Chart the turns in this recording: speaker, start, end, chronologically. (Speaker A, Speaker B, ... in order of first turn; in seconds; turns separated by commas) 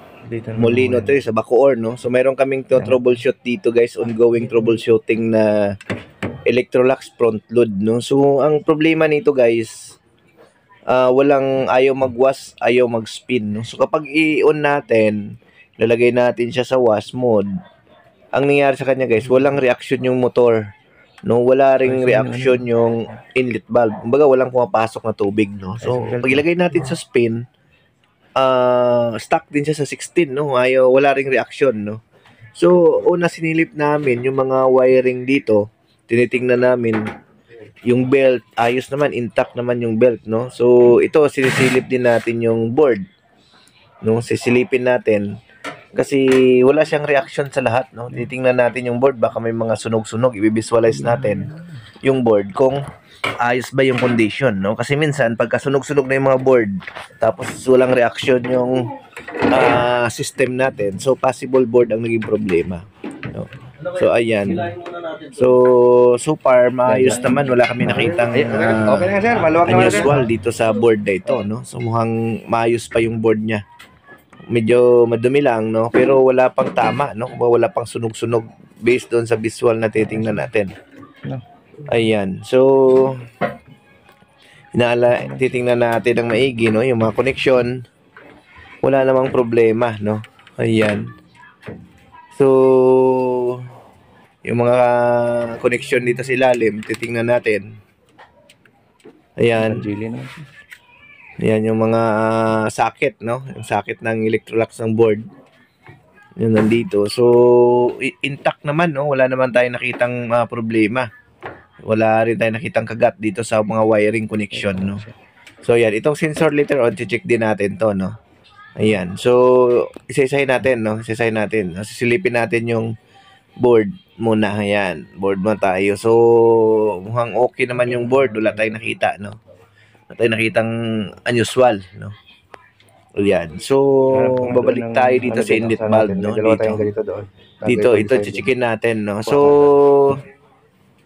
Speaker A: 0.2-1.2, Speaker B: 0.5-5.7, Speaker A: 2.8-3.0, Speaker A: 4.5-4.8, Speaker B: 6.5-10.0, Speaker B: 10.9-17.5, Speaker B: 18.3-20.6, Speaker B: 21.3-27.5, Speaker A: 21.8-22.7, Speaker A: 25.8-26.5, Speaker B: 28.4-32.0, Speaker B: 32.6-37.1, Speaker B: 37.9-43.0, Speaker B: 44.0-45.3, Speaker B: 45.9-52.8, Speaker B: 53.4-73.6, Speaker A: 66.9-67.4, Speaker A: 68.0-70.3, Speaker B: 74.5-80.7, Speaker B: 81.8-83.3, Speaker B: 84.7-87.8, Speaker B: 88.8-91.1, Speaker B: 92.3-93.7, Speaker B: 94.5-97.8, Speaker B: 99.4-99.9, Speaker A: 99.6-100.5, Speaker B: 101.4-105.2, Speaker B: 106.4-111.1, Speaker B: 111.8-115.0, Speaker A: 114.5-115.1, Speaker B: 115.6-118.2, Speaker B: 118.8-122.9, Speaker B: 123.6-129.4, Speaker A: 128.1-128.4, Speaker B: 130.1-132.2, Speaker B: 133.2-136.9, Speaker A: 134.1-138.5, Speaker B: 137.7-140.2, Speaker A: 139.2-139.7